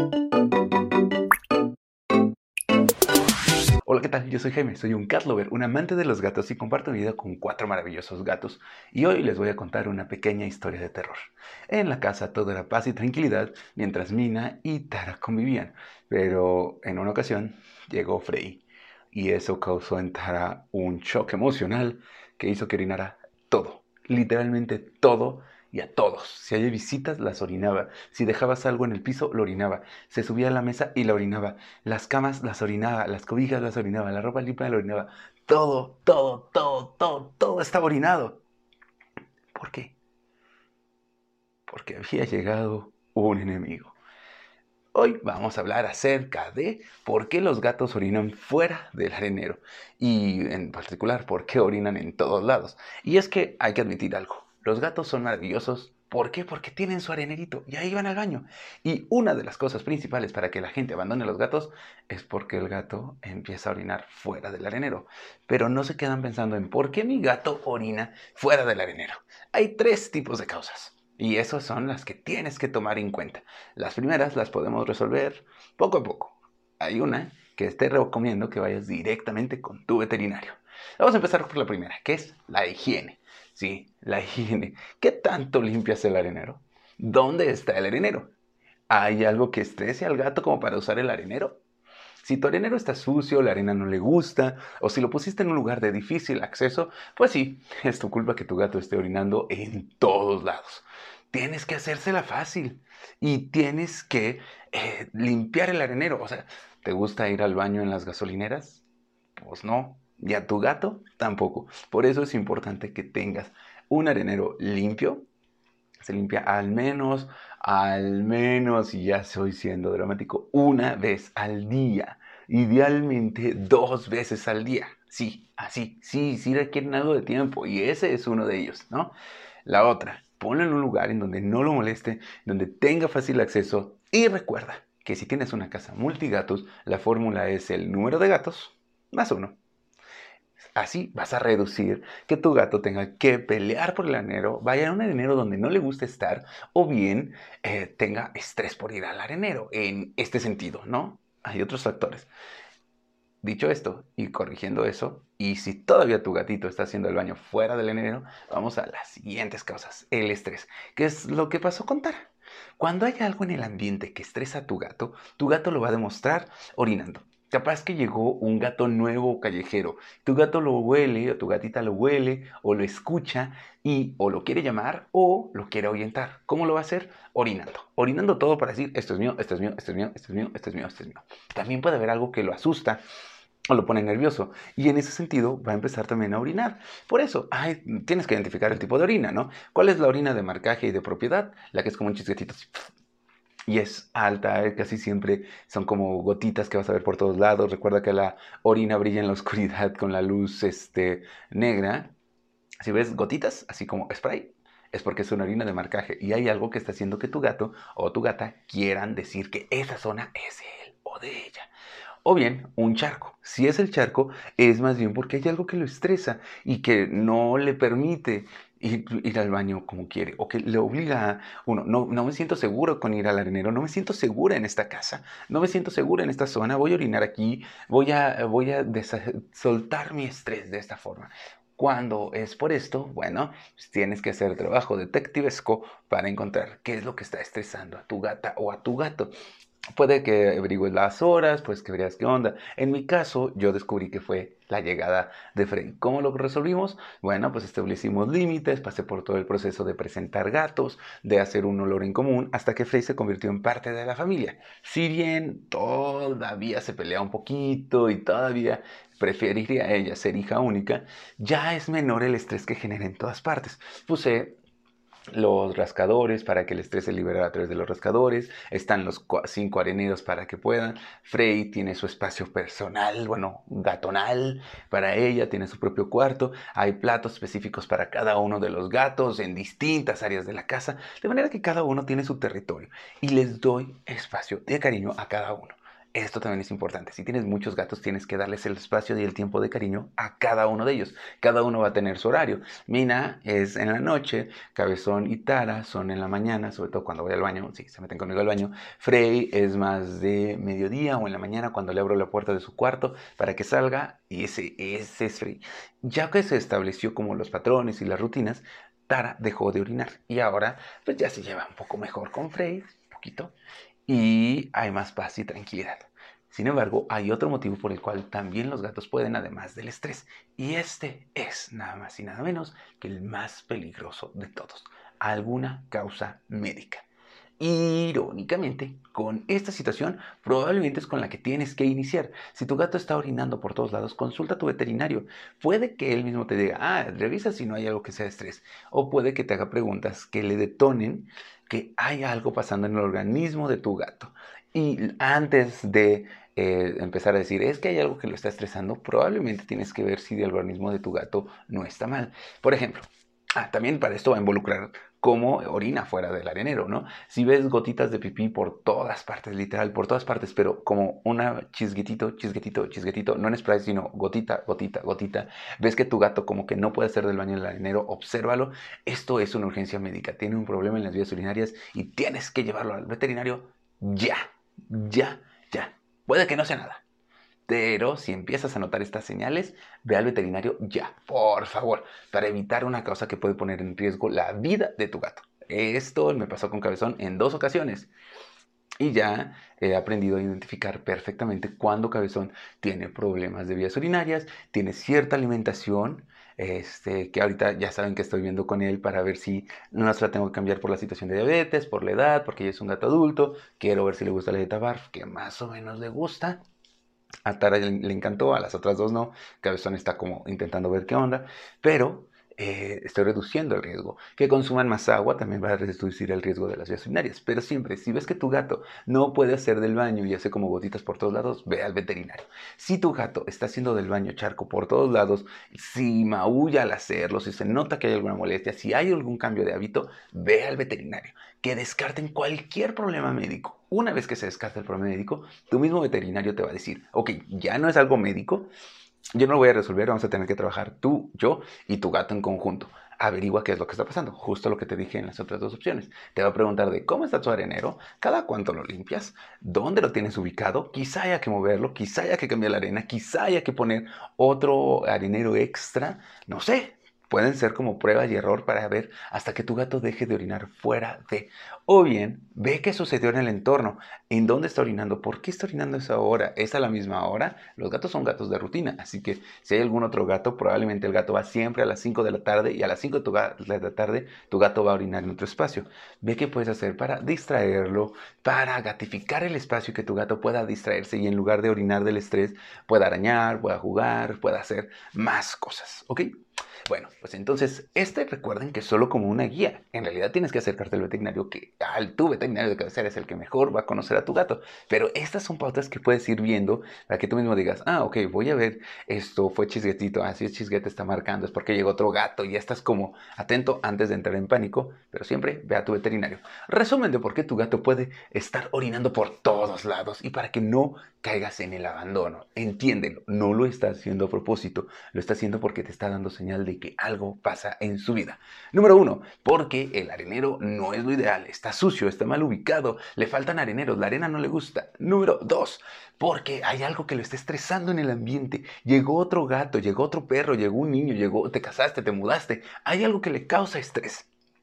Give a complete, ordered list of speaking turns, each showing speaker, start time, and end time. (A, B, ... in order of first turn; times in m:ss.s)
0:03.8-0:38.4 A
0:39.5-0:39.9 A
0:41.7-0:43.9 A
0:44.9-1:28.3 A
1:28.9-1:31.6 A
1:32.2-1:48.8 A
1:49.4-1:55.2 A
1:56.0-2:09.1 A
2:09.6-2:19.6 A
2:20.8-2:32.3 A
2:33.4-2:42.3 A
2:42.8-3:03.0 A
3:03.7-3:12.9 A
3:13.7-3:22.1 A
3:22.8-3:31.7 A
3:32.2-3:59.3 A
4:00.0-4:24.6 A
4:25.3-5:13.5 A
5:14.1-5:27.0 A
5:27.6-6:17.0 A
6:17.7-6:28.1 A
6:29.0-6:46.6 A
6:47.4-7:18.7 A
7:19.3-8:06.3 A
8:06.8-8:54.3 A